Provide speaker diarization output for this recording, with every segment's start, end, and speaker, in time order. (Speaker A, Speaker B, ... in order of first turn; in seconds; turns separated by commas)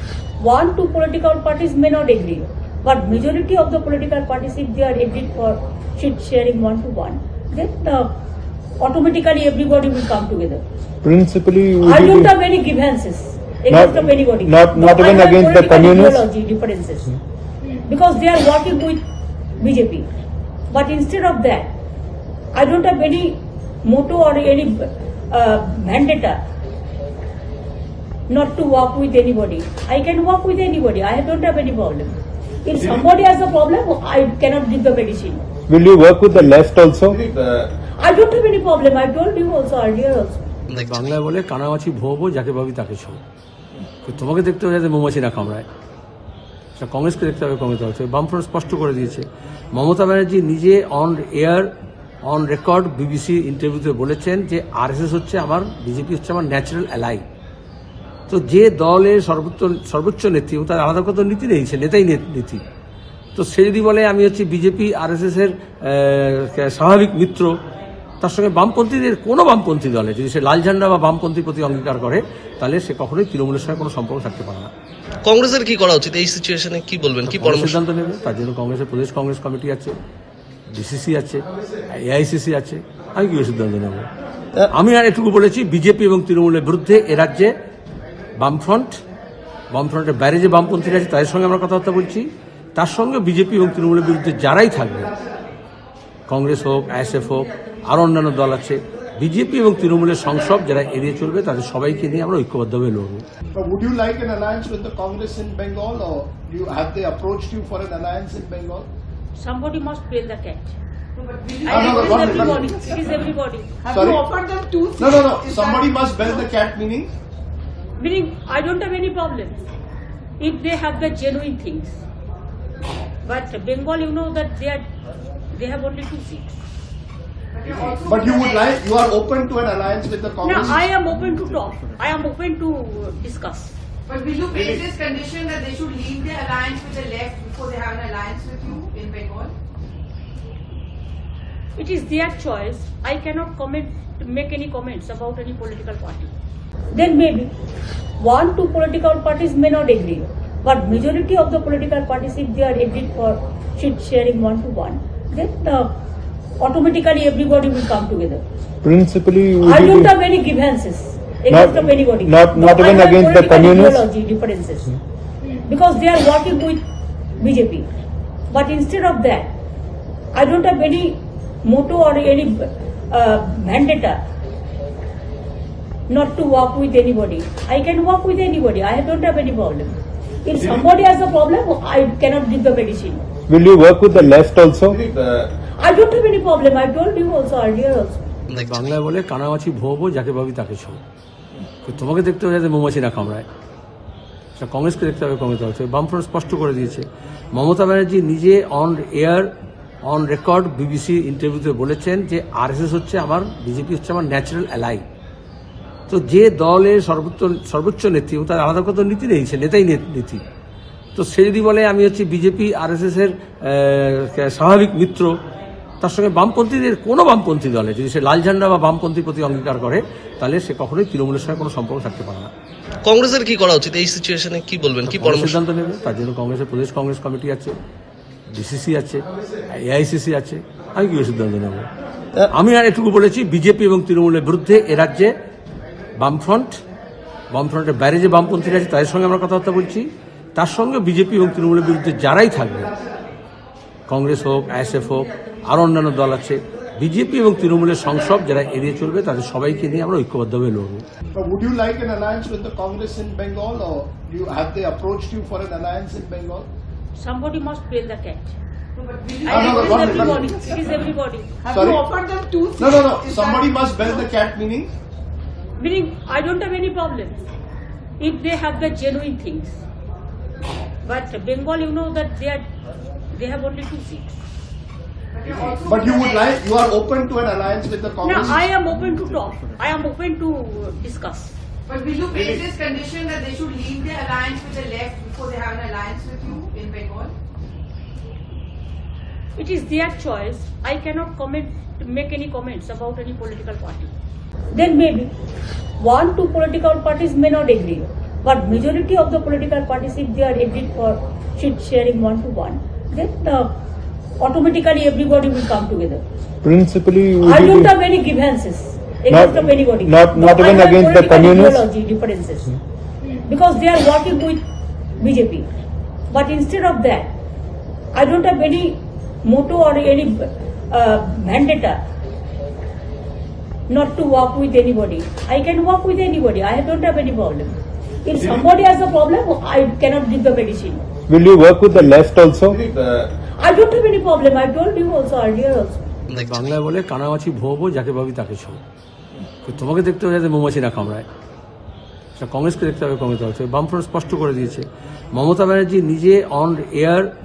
Speaker A: 0.4-8.1, Speaker A: 8.8-10.6, Speaker B: 11.0-12.3, Speaker A: 11.8-17.2, Speaker B: 13.7-16.2, Speaker A: 17.8-19.0, Speaker A: 19.6-20.1, Speaker A: 20.7-21.8, Speaker A: 22.5-26.4, Speaker A: 28.3-35.5, Speaker B: 35.7-37.2, Speaker A: 38.0-40.4, Speaker C: 40.7-41.1, Speaker D: 40.7-43.2, Speaker D: 44.0-45.7, Speaker D: 46.8-51.7, Speaker D: 52.3-57.2, Speaker D: 58.3-62.6, Speaker D: 63.4-67.5, Speaker D: 68.2-74.7, Speaker C: 75.2-77.8, Speaker D: 77.3-80.0, Speaker D: 80.7-84.1, Speaker D: 84.7-87.5, Speaker D: 88.4-89.0, Speaker D: 89.7-95.1, Speaker D: 96.3-103.2, Speaker E: 103.5-108.9, Speaker A: 109.3-110.8, Speaker F: 111.2-112.6, Speaker A: 111.7-113.7, Speaker E: 111.7-112.7, Speaker F: 113.8-115.9, Speaker E: 113.9-114.3, Speaker E: 115.0-117.1, Speaker A: 118.0-119.6, Speaker A: 120.4-122.0, Speaker A: 123.2-124.9, Speaker A: 125.5-126.6, Speaker F: 127.5-128.7, Speaker E: 128.1-130.8, Speaker A: 130.4-133.7, Speaker F: 134.1-139.5, Speaker A: 141.8-146.3, Speaker A: 146.9-147.5, Speaker A: 148.2-155.9, Speaker A: 156.6-158.4, Speaker B: 158.8-160.1, Speaker A: 159.6-165.0, Speaker B: 161.5-164.0, Speaker A: 165.6-166.8, Speaker A: 167.4-167.9, Speaker A: 168.5-169.6, Speaker A: 170.3-174.2, Speaker A: 176.1-183.3, Speaker B: 183.5-185.0, Speaker A: 185.8-188.2, Speaker C: 188.5-188.9, Speaker D: 188.5-191.0, Speaker D: 191.8-193.5, Speaker D: 194.6-199.5, Speaker D: 200.1-205.0, Speaker D: 206.1-210.4, Speaker D: 211.2-215.3, Speaker D: 216.0-222.5, Speaker C: 223.1-225.6, Speaker D: 225.1-227.8, Speaker D: 228.5-231.9, Speaker D: 232.5-235.3, Speaker D: 236.2-236.8, Speaker D: 237.5-242.9, Speaker D: 244.1-251.0, Speaker E: 251.3-256.7, Speaker A: 257.1-258.6, Speaker F: 258.9-260.4, Speaker A: 259.4-261.6, Speaker E: 259.5-260.5, Speaker F: 261.6-264.0, Speaker E: 261.7-262.1, Speaker E: 262.8-264.9, Speaker A: 265.8-267.4, Speaker A: 268.2-269.8, Speaker A: 271.0-272.7, Speaker A: 273.3-274.4, Speaker F: 275.3-276.5, Speaker E: 275.9-278.6, Speaker A: 278.2-281.5, Speaker F: 281.9-287.3, Speaker A: 289.6-294.1, Speaker A: 294.7-295.3, Speaker A: 296.0-303.7, Speaker A: 304.4-306.2, Speaker B: 306.6-307.9, Speaker A: 307.4-312.8, Speaker B: 309.3-311.8, Speaker A: 313.4-314.6, Speaker A: 315.2-315.7, Speaker A: 316.3-317.3, Speaker A: 318.1-322.0, Speaker A: 323.9-331.1, Speaker B: 331.3-332.8, Speaker A: 333.6-336.0, Speaker C: 336.3-336.7, Speaker D: 336.3-338.8, Speaker D: 339.6-341.3, Speaker D: 342.4-347.3